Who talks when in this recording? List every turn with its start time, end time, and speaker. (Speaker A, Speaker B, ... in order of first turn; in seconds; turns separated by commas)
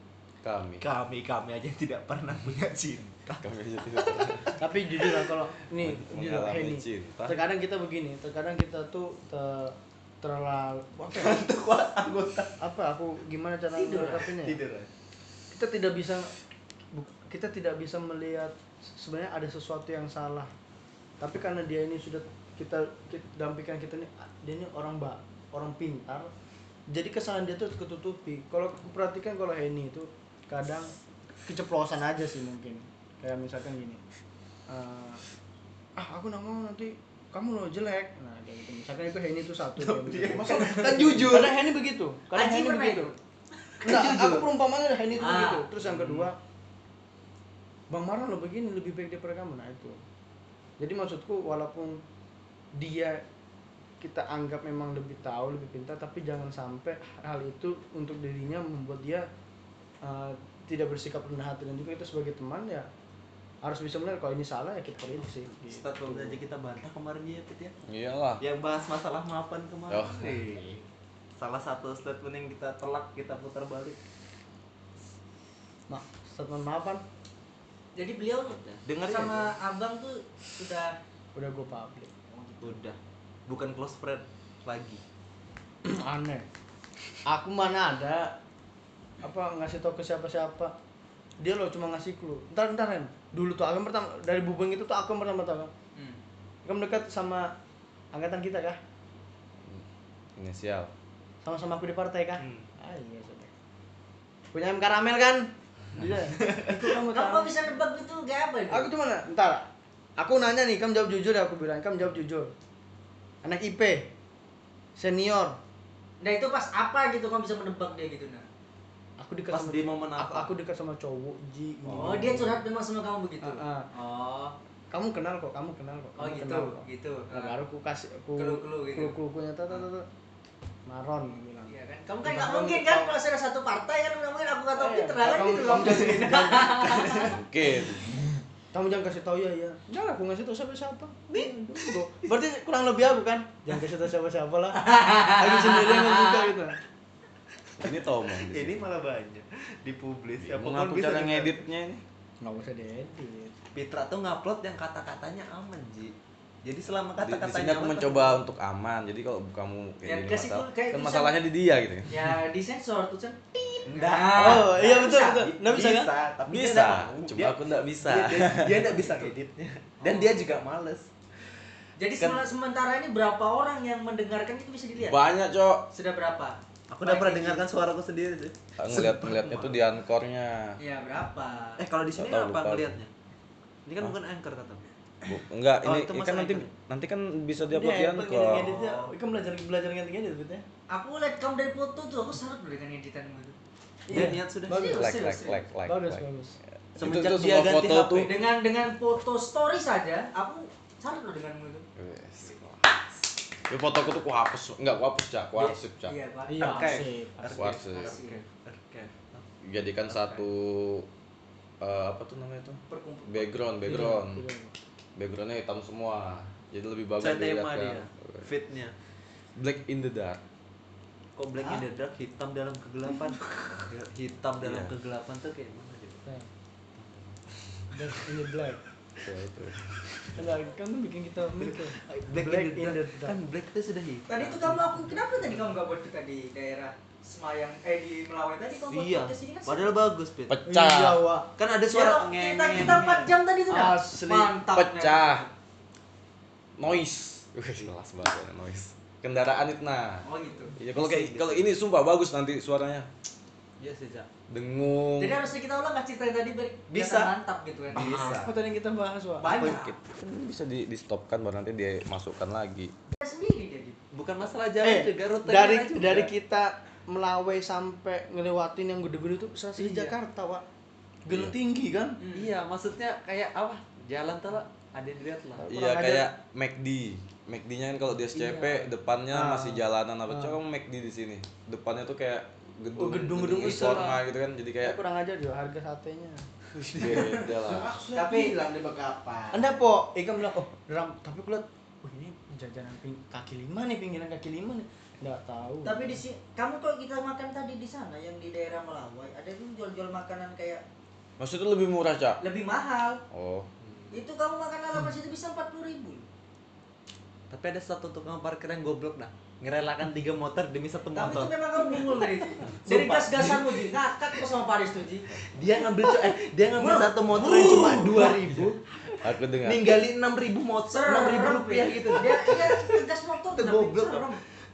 Speaker A: 0.4-0.8, Speaker B: 0.8-3.4, Speaker A: 3.4-4.5, Speaker B: 4.0-5.0, Speaker C: 4.6-11.4, Speaker A: 5.8-7.4, Speaker B: 11.1-12.5, Speaker C: 12.6-14.6, Speaker D: 13.7-14.3, Speaker B: 14.4-14.9, Speaker C: 15.5-16.3, Speaker C: 16.9-20.5, Speaker C: 21.2-26.3, Speaker C: 26.9-30.9, Speaker C: 31.5-34.0, Speaker C: 34.7-35.2, Speaker C: 36.0-43.1, Speaker B: 39.8-41.5, Speaker E: 40.3-41.5, Speaker D: 42.3-43.1, Speaker C: 43.8-46.4, Speaker B: 43.8-44.4, Speaker D: 45.2-45.6, Speaker B: 45.8-46.3, Speaker C: 47.9-50.0, Speaker C: 50.8-52.0, Speaker C: 52.7-53.2, Speaker C: 54.0-59.3, Speaker C: 60.0-62.9, Speaker C: 63.6-66.4, Speaker B: 65.6-67.8, Speaker A: 67.9-68.4, Speaker B: 68.4-70.8, Speaker A: 69.9-70.4, Speaker B: 71.4-74.0, Speaker C: 75.9-77.0, Speaker D: 77.9-81.0, Speaker B: 78.5-79.5, Speaker C: 81.3-82.1, Speaker D: 82.3-82.7, Speaker B: 82.6-85.0, Speaker C: 85.8-86.5, Speaker C: 87.2-88.3, Speaker C: 89.2-90.7, Speaker C: 91.4-95.7, Speaker C: 96.6-97.5, Speaker C: 98.1-98.8, Speaker A: 100.4-100.9, Speaker C: 101.4-103.5, Speaker C: 104.5-107.7, Speaker D: 107.0-108.9, Speaker C: 108.7-112.5, Speaker C: 113.4-114.1, Speaker C: 115.0-115.6, Speaker D: 116.2-118.5, Speaker C: 119.2-122.6, Speaker B: 119.5-120.5, Speaker D: 121.9-124.5, Speaker C: 123.4-123.9, Speaker C: 124.9-130.1, Speaker D: 126.2-127.5, Speaker D: 128.4-129.2, Speaker C: 130.8-133.1, Speaker D: 131.7-137.4, Speaker C: 134.7-137.3, Speaker A: 137.3-138.2, Speaker C: 138.7-146.8, Speaker B: 141.8-142.1, Speaker D: 144.8-146.4, Speaker A: 147.8-148.8, Speaker B: 148.4-151.6, Speaker A: 150.4-152.0, Speaker C: 152.4-153.5, Speaker B: 153.7-158.4, Speaker A: 157.2-162.3, Speaker D: 160.0-161.3, Speaker D: 162.1-165.4, Speaker B: 163.8-171.1, Speaker C: 164.3-166.1, Speaker A: 166.5-169.2, Speaker D: 170.0-170.5, Speaker D: 171.9-175.2, Speaker A: 175.0-175.8, Speaker D: 175.9-177.7, Speaker B: 176.9-179.8, Speaker A: 178.8-180.8, Speaker D: 180.8-181.8, Speaker B: 181.8-183.1, Speaker A: 182.1-183.0, Speaker B: 183.8-184.8, Speaker A: 185.2-188.7, Speaker B: 185.8-186.7, Speaker C: 187.7-190.6, Speaker B: 188.6-189.1, Speaker D: 190.9-193.6, Speaker C: 194.1-195.1, Speaker B: 194.1-195.0, Speaker D: 194.7-195.6, Speaker A: 194.9-196.2, Speaker C: 195.8-196.6, Speaker A: 196.9-198.3, Speaker B: 197.0-198.4, Speaker D: 198.2-201.9, Speaker A: 202.0-202.9, Speaker A: 203.7-206.1, Speaker D: 206.1-207.1, Speaker C: 206.5-207.8, Speaker B: 206.6-209.4, Speaker A: 207.5-208.1, Speaker D: 207.9-208.4, Speaker A: 209.6-211.1, Speaker B: 210.0-210.4, Speaker A: 211.8-214.4, Speaker D: 212.9-213.6, Speaker C: 213.8-214.7, Speaker A: 215.2-218.5, Speaker B: 217.2-218.9, Speaker A: 219.6-220.4, Speaker B: 221.3-226.2, Speaker A: 224.6-224.9, Speaker B: 226.9-227.3, Speaker C: 227.9-228.8, Speaker A: 229.2-230.0, Speaker C: 230.3-233.4, Speaker B: 231.5-234.9, Speaker D: 234.3-239.9, Speaker B: 238.9-240.6, Speaker A: 240.5-241.2, Speaker C: 240.7-241.5, Speaker B: 241.6-243.3, Speaker D: 241.9-245.5, Speaker C: 243.7-244.5, Speaker A: 244.7-245.4, Speaker A: 246.8-253.1, Speaker D: 250.2-250.8, Speaker B: 250.9-251.6, Speaker B: 253.8-254.3, Speaker A: 254.5-255.4, Speaker D: 255.2-258.3, Speaker B: 256.9-257.3, Speaker B: 257.9-258.5, Speaker C: 258.0-259.5, Speaker D: 259.4-259.9, Speaker B: 259.5-259.8, Speaker A: 259.5-262.9, Speaker D: 263.2-264.0, Speaker B: 264.1-266.3, Speaker C: 264.8-270.6, Speaker D: 269.8-270.1, Speaker C: 271.2-272.2, Speaker A: 271.3-271.5, Speaker D: 272.2-272.5, Speaker B: 272.3-275.6, Speaker C: 275.6-276.3, Speaker A: 275.7-285.0, Speaker D: 278.5-278.8, Speaker C: 279.3-280.6, Speaker C: 282.9-284.2, Speaker C: 284.8-286.4, Speaker A: 286.9-287.9, Speaker B: 287.0-287.3, Speaker E: 287.2-289.7, Speaker D: 288.1-288.6, Speaker C: 289.5-296.2, Speaker D: 295.8-300.8, Speaker A: 301.4-302.4, Speaker D: 302.4-303.2, Speaker A: 303.3-303.7, Speaker B: 303.8-304.2, Speaker D: 304.1-306.2, Speaker B: 307.5-312.1, Speaker D: 311.1-315.3, Speaker B: 312.8-314.0, Speaker B: 315.5-318.8, Speaker D: 316.8-318.5, Speaker A: 319.2-319.9, Speaker B: 319.6-322.9, Speaker D: 320.9-324.4, Speaker B: 323.5-324.4